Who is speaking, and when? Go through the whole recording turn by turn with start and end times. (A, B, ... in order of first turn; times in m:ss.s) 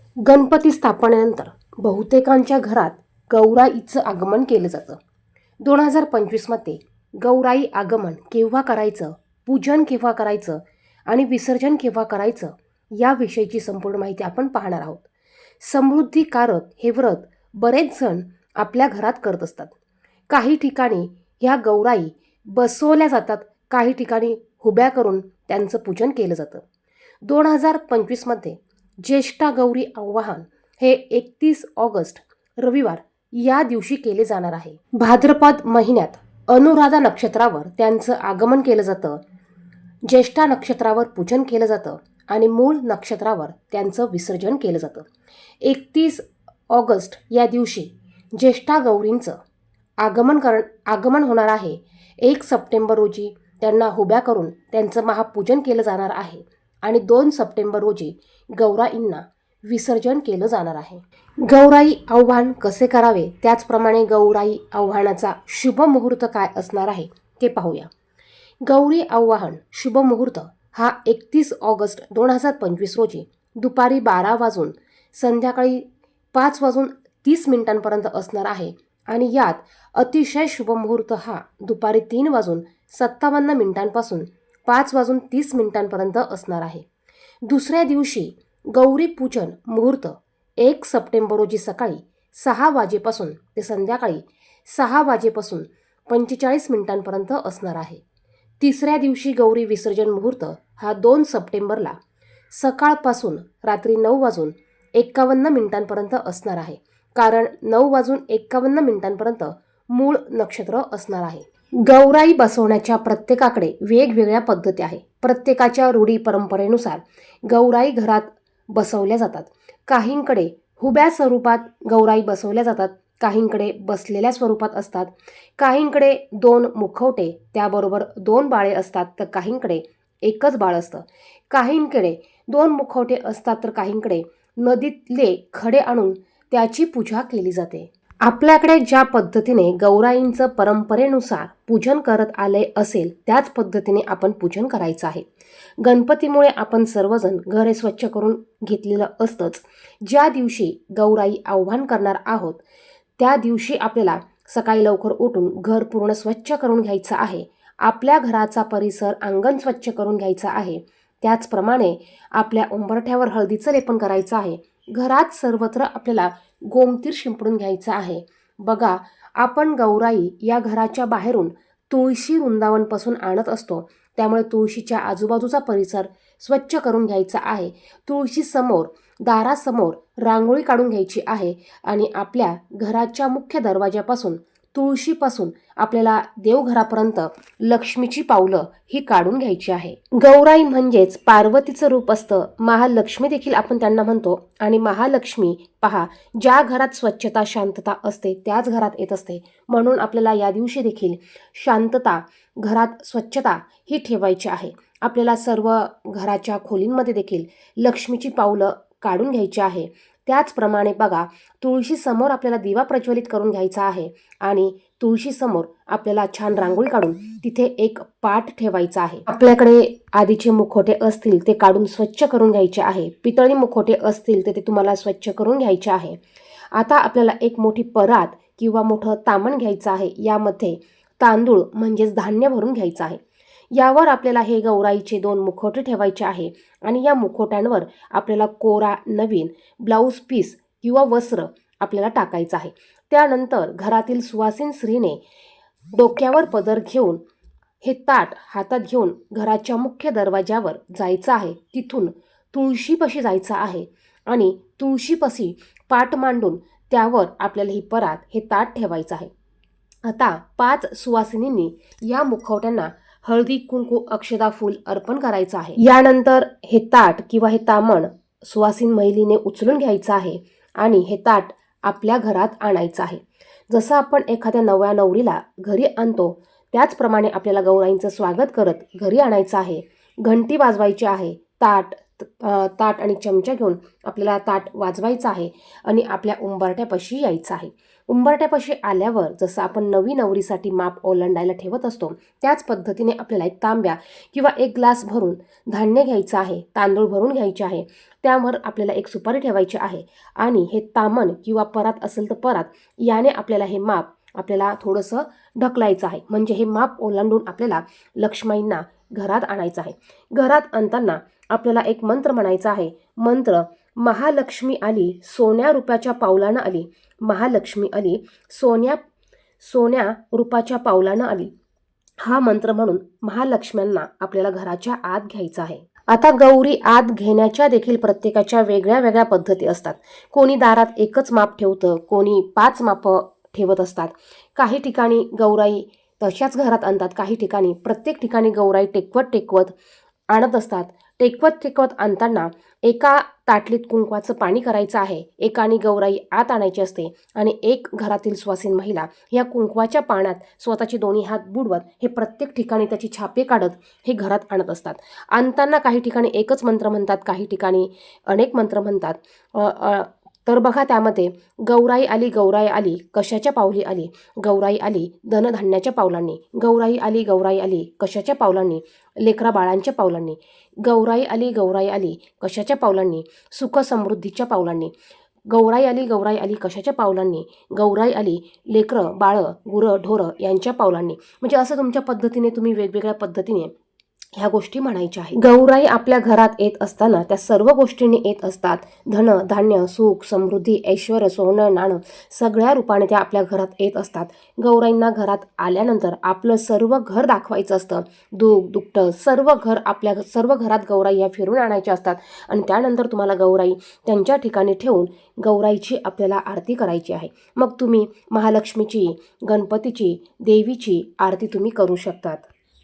0:00.2-0:05.0 A
0:05.6-0:15.0 A
0:15.6-0:19.7 A
0:20.3-0:26.6 A
0:27.2-0:39.2 A
0:40.1-0:45.1 A
0:45.6-0:49.4 A
0:50.0-1:07.9 A
1:08.6-1:26.8 A
1:27.5-1:38.0 A
1:38.6-1:42.0 A
1:42.5-2:25.3 A
2:25.8-2:32.6 A
2:33.2-3:46.2 A
3:46.7-3:53.2 A
3:53.8-4:05.2 A
4:05.9-4:07.2 A
4:07.8-4:19.3 A
4:20.0-5:19.0 A
5:19.6-5:21.5 A
5:22.2-5:39.7 A
5:40.3-6:14.9 A
6:15.5-6:23.7 A
6:24.4-6:52.5 A